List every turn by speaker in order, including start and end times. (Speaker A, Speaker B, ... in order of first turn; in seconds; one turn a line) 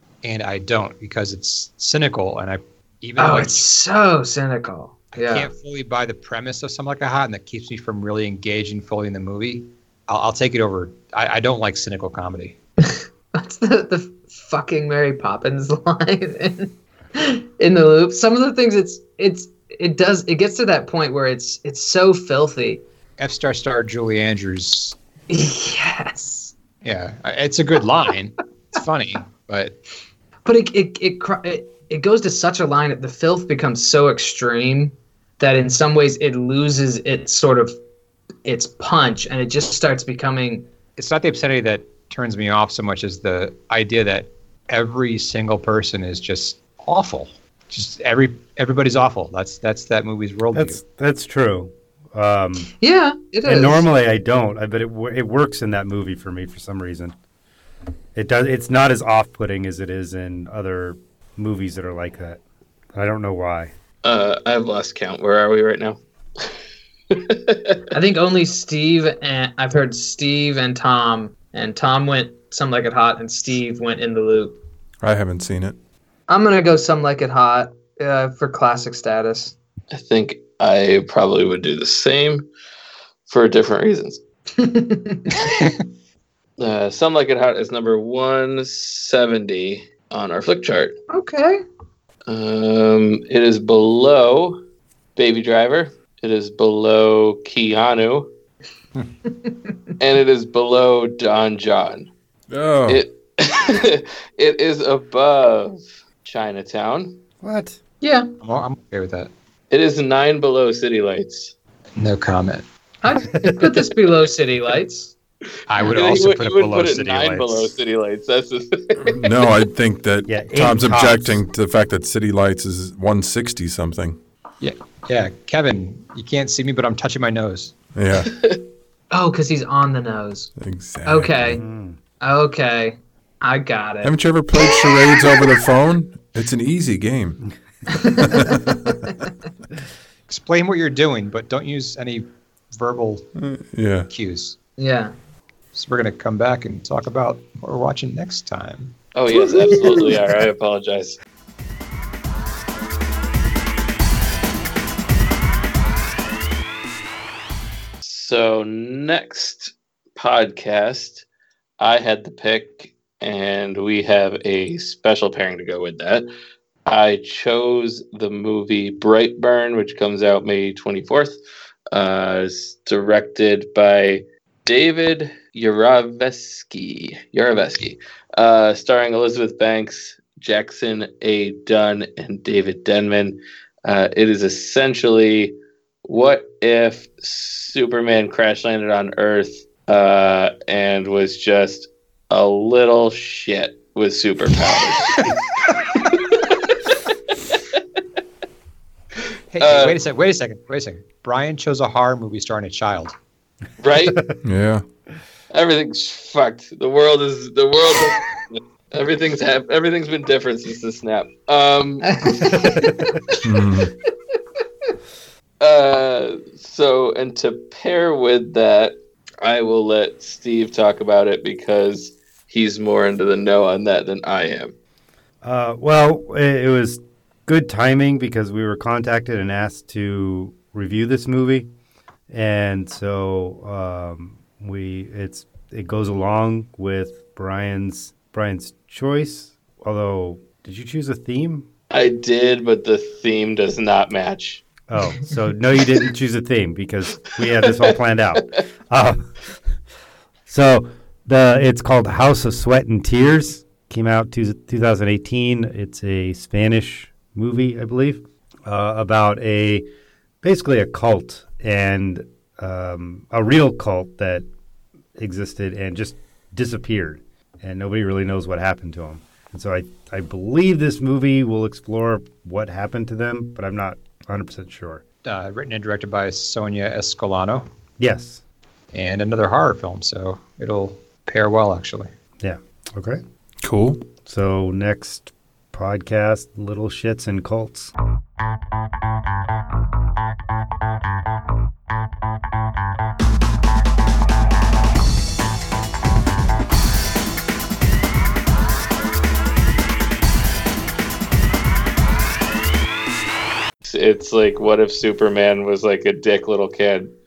Speaker A: 0.2-3.7
Speaker B: 3.2-5.5
Speaker A: 5.1-12.6
Speaker B: 12.8-22.8
Speaker A: 23.2-25.0
Speaker B: 25.3-26.6
Speaker A: 26.8-29.8
Speaker B: 30.4-37.8
Speaker B: 38.5-40.6
Speaker A: 41.0-50.8
Speaker C: 50.5-52.7
Speaker B: 52.8-53.9
Speaker C: 53.5-57.2
Speaker C: 58.1-62.4
Speaker C: 62.9-63.7
Speaker D: 64.0-66.0
Speaker D: 67.1-67.8
Speaker B: 67.9-74.6
Speaker E: 75.0-75.8
Speaker B: 76.3-79.6
Speaker D: 79.9-82.5
Speaker D: 83.3-84.2
Speaker B: 84.6-85.5
Speaker A: 85.5-85.7
Speaker D: 86.6-91.0
Speaker B: 91.1-91.6
Speaker D: 92.3-94.6
Speaker D: 95.2-98.3
Speaker D: 100.0-102.1
Speaker E: 102.5-103.0
Speaker D: 102.9-107.2
Speaker C: 107.4-107.8
Speaker B: 108.0-108.3
Speaker A: 108.4-109.3
Speaker D: 109.7-111.5
Speaker A: 112.0-112.7
Speaker B: 113.0-115.1
Speaker A: 115.7-117.7
Speaker D: 115.8-119.3
Speaker E: 119.0-124.2
Speaker C: 120.3-121.4
Speaker A: 124.6-127.8
Speaker E: 128.0-128.3
Speaker D: 128.4-128.6
Speaker B: 129.1-130.5
Speaker E: 130.6-131.6
Speaker B: 131.1-131.6
Speaker C: 131.6-132.0
Speaker B: 132.2-134.1
Speaker E: 134.0-137.4
Speaker B: 137.9-139.3
Speaker E: 138.0-139.0
Speaker A: 140.3-143.3
Speaker E: 143.4-144.1
Speaker A: 144.1-144.6
Speaker B: 144.8-145.1
Speaker A: 145.7-148.9
Speaker D: 149.2-151.2
Speaker B: 149.5-150.1
Speaker D: 158.0-161.3
Speaker D: 161.8-166.3
Speaker D: 166.9-171.4
Speaker D: 171.9-196.8
Speaker A: 199.5-203.2
Speaker D: 199.6-200.0
Speaker D: 203.8-204.2
Speaker E: 204.4-204.8
Speaker D: 205.5-212.7
Speaker B: 212.0-213.3
Speaker E: 213.4-213.9
Speaker D: 215.6-224.7
Speaker C: 225.4-231.7
Speaker C: 232.3-241.7
Speaker D: 241.9-244.6
Speaker C: 244.9-249.3
Speaker C: 250.5-259.9
Speaker C: 260.4-264.5
Speaker C: 265.2-275.0
Speaker A: 275.2-277.7
Speaker C: 278.0-278.4
Speaker A: 278.9-282.1
Speaker C: 282.4-283.2
Speaker E: 283.6-284.1
Speaker C: 284.2-287.9
Speaker D: 303.8-307.1